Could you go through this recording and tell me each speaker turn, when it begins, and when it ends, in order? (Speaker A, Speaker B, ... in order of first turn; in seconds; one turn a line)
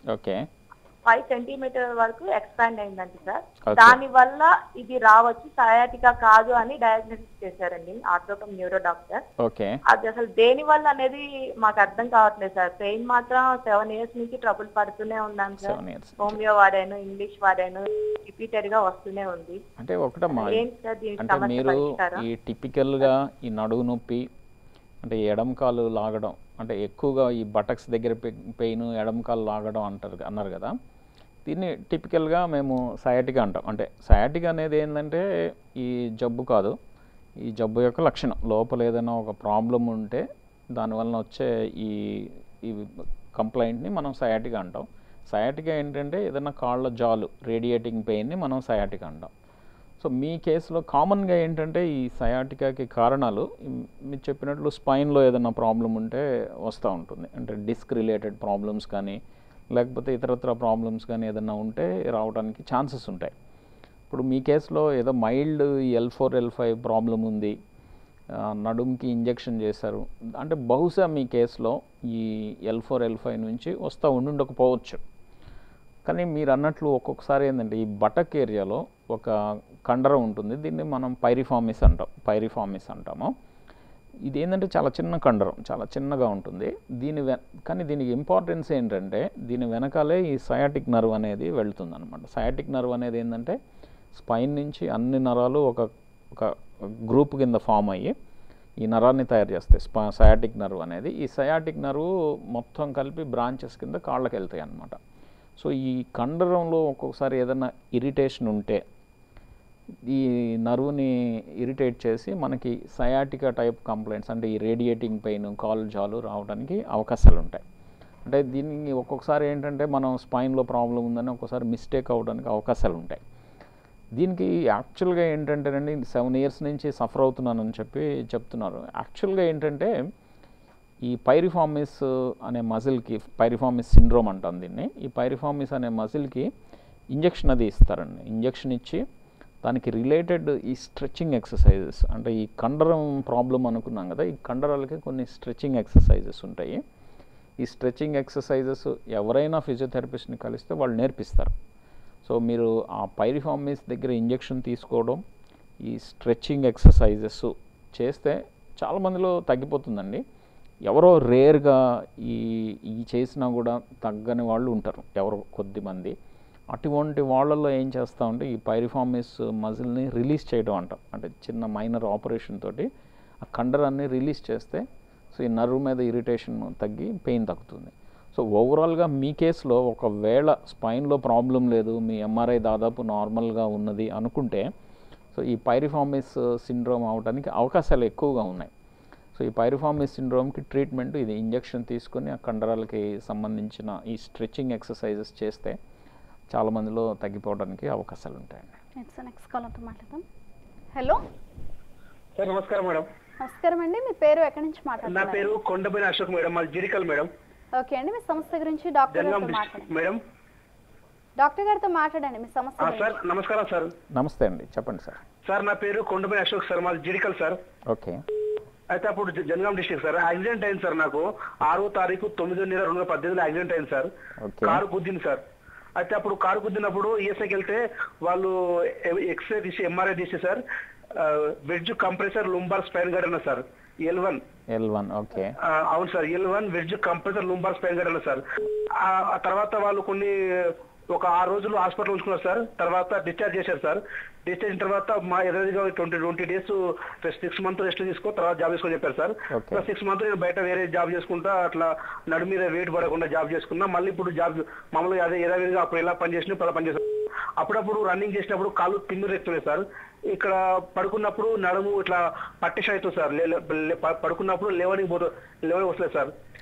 Speaker A: 0.1-0.5
Speaker B: 1.0-9.2
Speaker A: 3.6-4.0
Speaker A: 9.4-9.8
Speaker B: 9.9-19.6
Speaker A: 15.6-16.4
Speaker A: 19.8-20.6
Speaker B: 20.3-22.2
Speaker A: 21.2-24.3
Speaker A: 25.0-30.7
Speaker A: 31.4-36.7
Speaker A: 37.4-49.3
Speaker A: 50.0-59.2
Speaker A: 59.7-63.3
Speaker A: 64.1-67.5
Speaker A: 68.4-75.0
Speaker A: 76.0-79.3
Speaker A: 79.8-83.3
Speaker A: 84.3-93.6
Speaker A: 94.1-98.1
Speaker A: 98.8-105.0
Speaker A: 105.6-108.8
Speaker A: 110.1-117.6
Speaker A: 118.2-123.2
Speaker A: 124.1-129.9
Speaker A: 131.0-136.5
Speaker A: 137.1-139.0
Speaker A: 139.6-146.8
Speaker A: 147.6-151.5
Speaker A: 152.2-155.2
Speaker A: 155.8-160.2
Speaker A: 160.8-166.1
Speaker A: 166.7-172.9
Speaker A: 173.4-184.7
Speaker A: 185.3-188.7
Speaker A: 189.3-195.8
Speaker A: 196.5-198.8
Speaker C: 199.0-200.2
Speaker C: 200.9-201.2
Speaker D: 202.4-203.1
Speaker C: 203.4-205.6
Speaker D: 205.0-207.3
Speaker C: 207.8-209.9
Speaker D: 209.1-210.2
Speaker C: 211.4-213.2
Speaker D: 212.8-213.9
Speaker A: 214.1-215.2
Speaker D: 215.4-217.6
Speaker A: 217.9-218.2
Speaker D: 218.9-224.1
Speaker A: 224.4-224.8
Speaker D: 224.6-225.4
Speaker D: 226.0-230.6
Speaker D: 231.2-234.4
Speaker A: 234.7-235.5
Speaker D: 235.6-238.4
Speaker D: 239.0-257.0
Speaker A: 249.5-249.9
Speaker D: 257.6-266.3